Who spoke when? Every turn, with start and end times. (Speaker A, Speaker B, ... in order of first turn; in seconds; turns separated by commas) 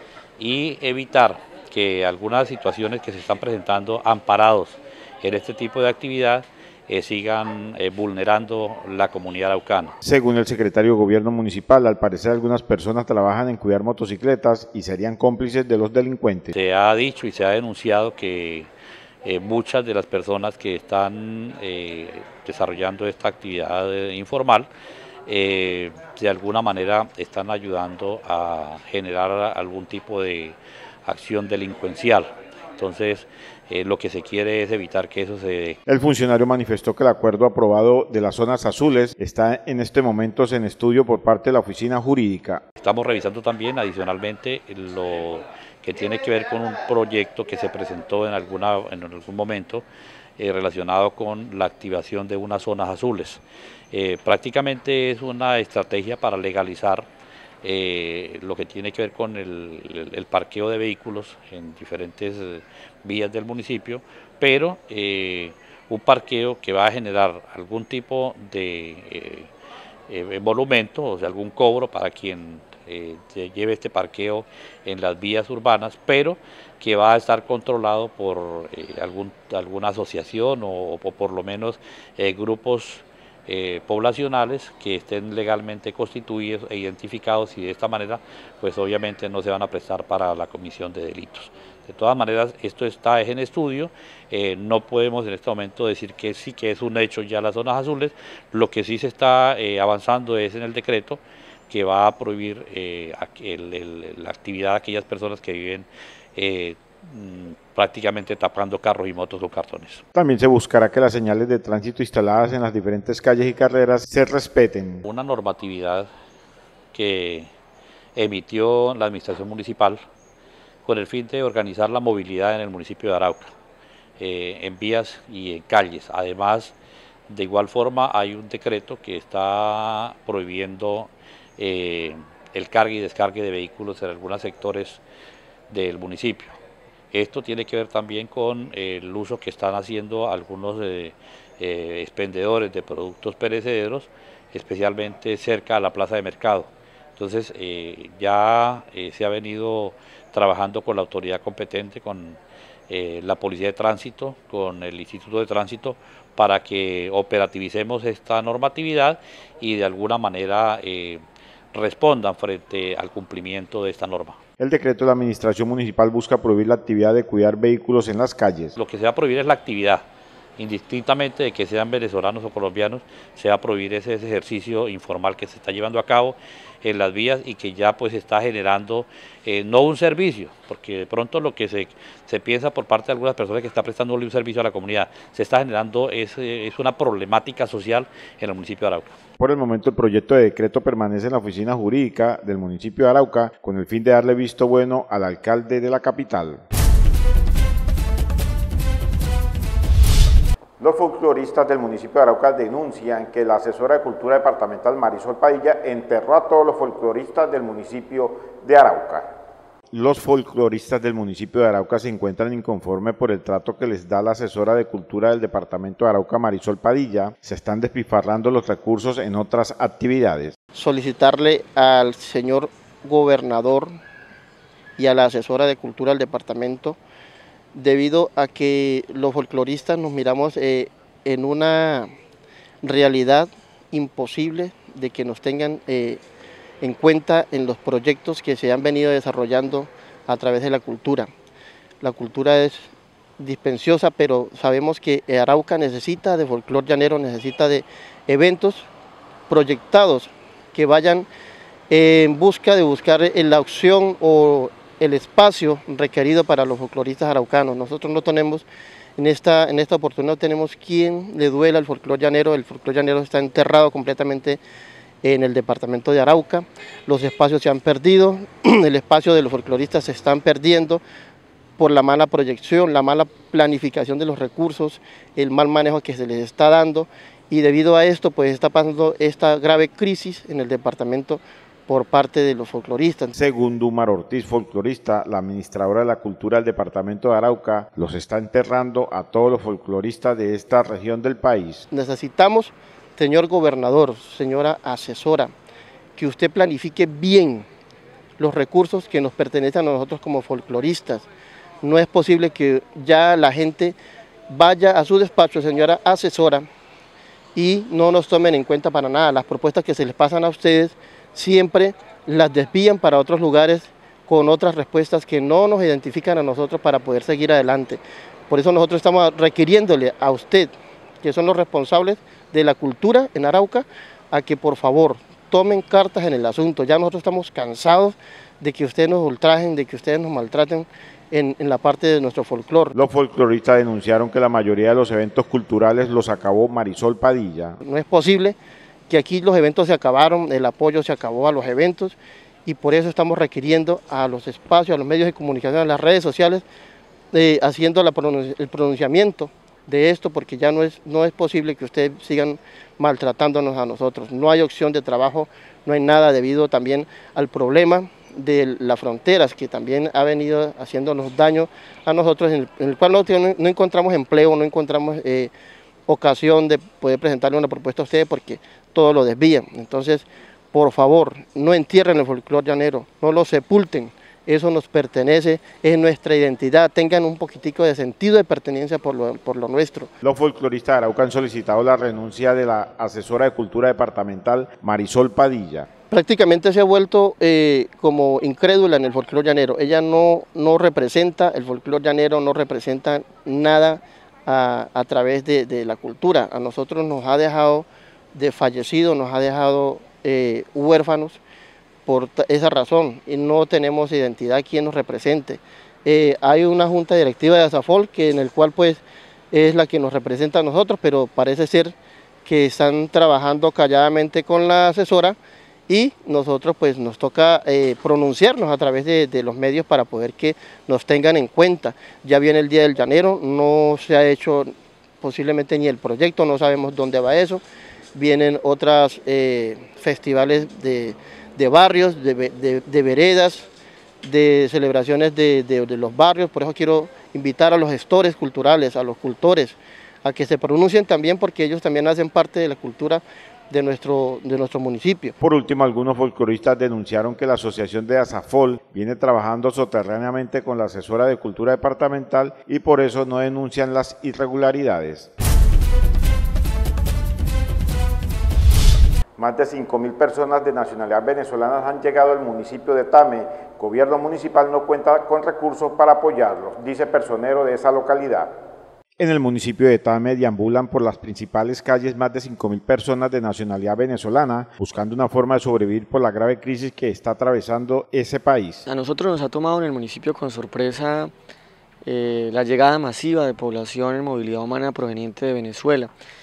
Speaker A: 0.4-9.9, Speaker B: 10.0-16.5, Speaker A: 16.5-18.7, Speaker A: 19.2-24.7, Speaker A: 25.3-35.8, Speaker B: 35.9-42.6, Speaker A: 42.8-49.8, Speaker A: 50.4-53.4, Speaker A: 53.9-57.1, Speaker A: 57.6-69.5, Speaker A: 70.1-110.0, Speaker B: 110.1-115.0, Speaker A: 115.0-116.1, Speaker A: 116.9-117.5, Speaker A: 118.2-120.0, Speaker A: 120.8-123.5, Speaker A: 124.2-126.7, Speaker A: 127.3-135.0, Speaker A: 135.7-136.6, Speaker A: 137.1-161.2, Speaker A: 161.7-164.4, Speaker B: 164.6-168.8, Speaker A: 168.8-170.1, Speaker A: 170.6-189.1, Speaker B: 189.4-196.6, Speaker B: 200.8-209.3, Speaker B: 209.9-220.6, Speaker C: 220.8-223.9, Speaker C: 225.0-227.0, Speaker C: 227.8-232.1, Speaker C: 232.8-236.2, Speaker C: 236.8-241.3, Speaker C: 242.0-242.8, Speaker C: 243.4-248.9, Speaker C: 249.5-251.3, Speaker C: 251.9-258.6, Speaker C: 259.2-264.6, Speaker C: 265.2-271.0, Speaker C: 271.8-283.3, Speaker B: 283.3-291.9, Speaker C: 291.9-295.5, Speaker C: 296.2-297.7, Speaker C: 298.4-301.3, Speaker C: 301.8-304.0, Speaker C: 304.5-306.7, Speaker C: 307.6-332.9, Speaker B: 332.9-337.8, Speaker C: 337.8-338.6, Speaker C: 339.1-346.6, Speaker C: 347.3-365.5, Speaker C: 366.1-380.1, Speaker B: 380.2-385.9, Speaker C: 386.1-401.4, Speaker C: 402.1-411.9, Speaker C: 412.5-415.4, Speaker C: 415.9-427.6, Speaker C: 428.1-433.7, Speaker C: 434.2-445.4, Speaker B: 445.4-455.3, Speaker B: 459.4-468.5, Speaker B: 469.2-478.9, Speaker D: 478.9-481.3, Speaker D: 482.1-486.1